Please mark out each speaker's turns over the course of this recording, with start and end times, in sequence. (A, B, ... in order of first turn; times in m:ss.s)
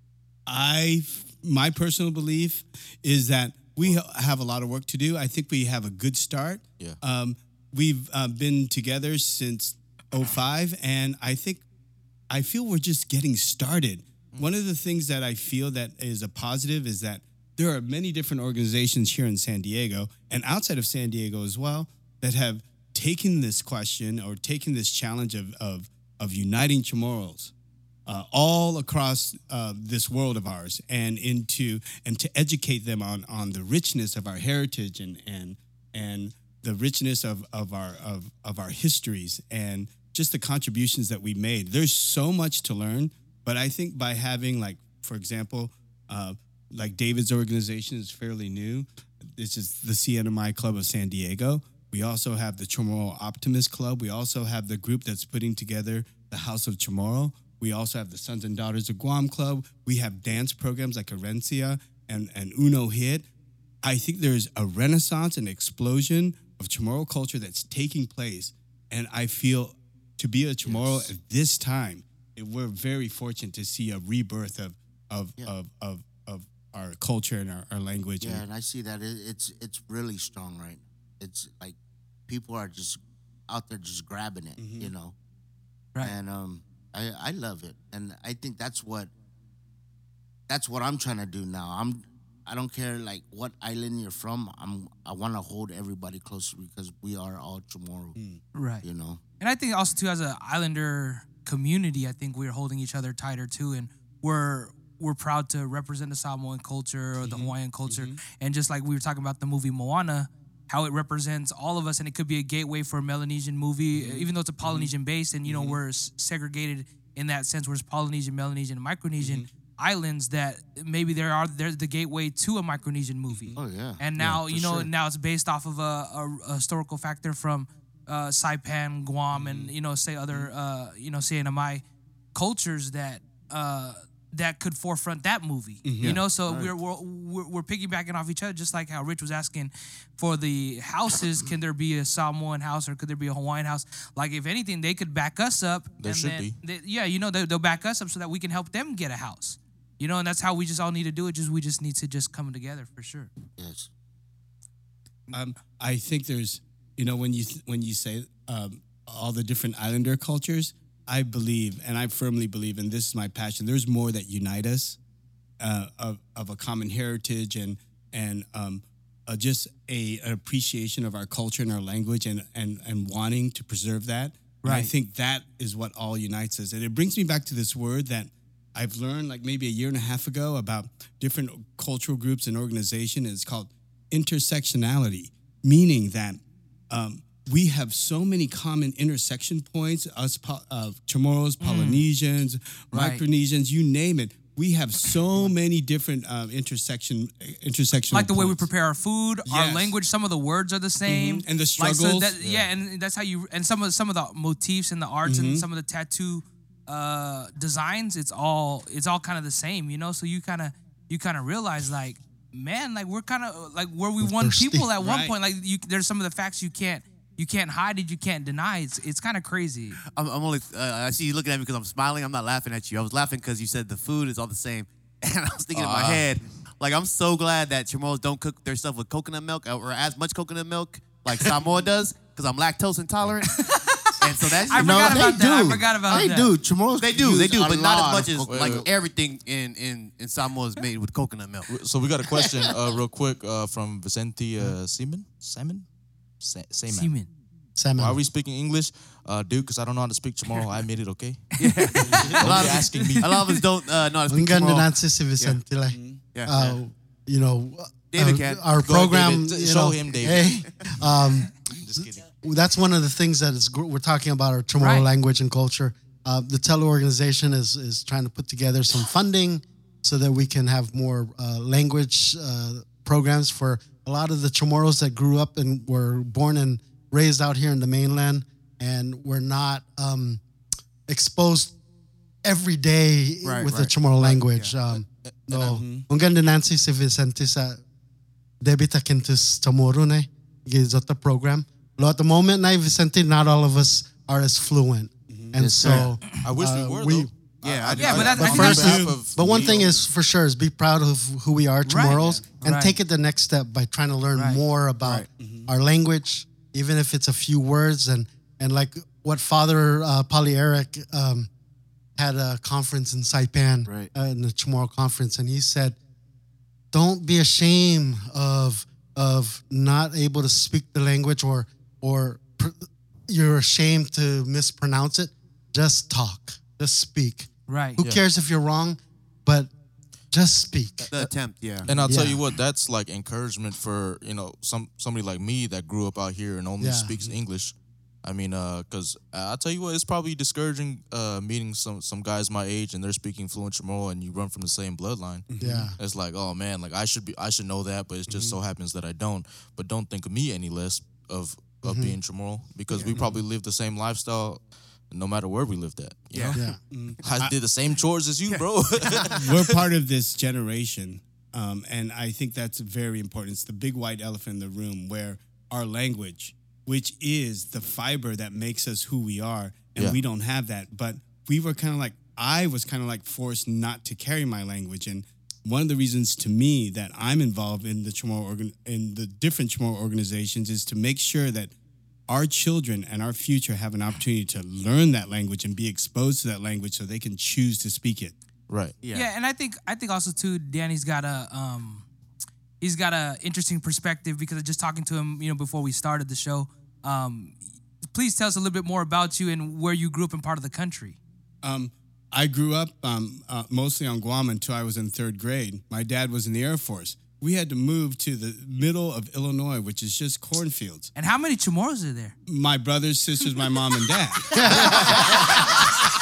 0:00.5-0:11.6 A
0:12.3-0:27.5 A
0:28.1-1:03.3 A
1:03.8-1:18.4 A
1:10.6-1:11.1 B
1:18.2-1:21.8 B
1:22.3-1:25.1 B
1:24.6-1:24.9 A
1:26.0-1:29.1 B
1:30.5-1:38.2 B
1:38.5-1:38.9 C
1:38.8-1:39.2 B
1:39.4-2:33.3 C
1:47.2-1:48.2 A
1:53.9-1:54.9 A
1:55.4-1:55.8 A
1:59.2-1:59.5 A
2:03.3-2:03.6 A
2:03.6-2:04.9 B
2:04.2-2:04.8 A
2:09.3-2:09.7 A
2:15.8-2:16.2 A
2:26.0-2:26.6 D
2:33.6-2:33.9 B
2:35.3-2:45.0 A
2:45.6-3:18.7 A
2:54.6-2:54.9 C
3:11.6-3:12.1 C
3:12.9-3:13.2 C
3:18.1-3:40.0 C
3:19.4-3:19.9 A
3:21.1-3:22.7 A
3:25.2-3:25.6 A
3:34.2-3:34.9 E
3:35.0-3:35.3 A
3:40.1-3:53.5 F
3:45.7-3:46.3 D
3:53.5-3:56.6 C
3:54.2-3:55.3 F
3:54.8-3:58.9 B
3:57.0-4:01.7 F
3:58.5-3:58.8 D
4:01.7-4:05.8 D
4:06.4-4:07.3 D
4:06.9-4:07.3 C
4:07.8-4:08.2 E
4:08.0-4:13.5 D
4:11.6-4:15.6 F
4:11.7-4:12.4 C
4:12.9-4:13.6 C
4:14.3-4:40.4 E
4:15.9-4:16.2 A
4:16.3-4:16.8 F
4:18.1-4:18.6 F
4:18.8-4:20.9 D
4:21.7-4:22.3 D
4:24.8-4:25.1 C
4:41.1-4:41.8 E
4:42.4-4:47.8 E
4:43.4-4:44.7 F
4:45.5-4:46.1 A
4:48.6-4:57.3 E
4:55.3-4:55.6 A
4:55.6-4:56.1 B
4:56.4-5:00.0 D
4:57.6-4:58.9 F
4:58.0-4:59.0 C
4:58.2-5:11.5 E
4:58.4-4:59.5 A
5:01.8-5:03.0 C
5:02.1-5:02.4 A
5:04.4-5:04.6 C
5:05.4-5:05.7 A
5:12.2-5:16.0 E
5:13.9-5:14.1 B
5:16.9-5:29.7 E
5:27.7-5:28.0 C
5:30.3-5:31.3 E
5:31.1-5:31.9 F
5:31.9-5:56.6 D
5:31.9-5:32.4 E
5:36.8-5:37.1 E
5:45.5-5:45.9 A
5:45.6-5:46.0 E
5:48.3-5:48.6 A
5:51.8-5:52.2 E
5:53.2-5:53.4 A
5:56.3-5:56.6 F
5:56.5-5:57.5 A
5:57.2-5:59.7 D
5:58.5-5:59.4 F
5:59.3-6:21.7 A
6:22.3-6:28.4 A
6:28.7-6:29.0 D
6:29.1-6:32.1 C
6:32.8-6:37.6 C
6:38.1-6:41.2 C
6:41.6-6:51.1 A
6:51.2-6:52.4 C
6:52.5-6:55.6 A
6:54.5-6:55.1 C
6:54.6-6:55.4 E
6:54.7-6:55.6 B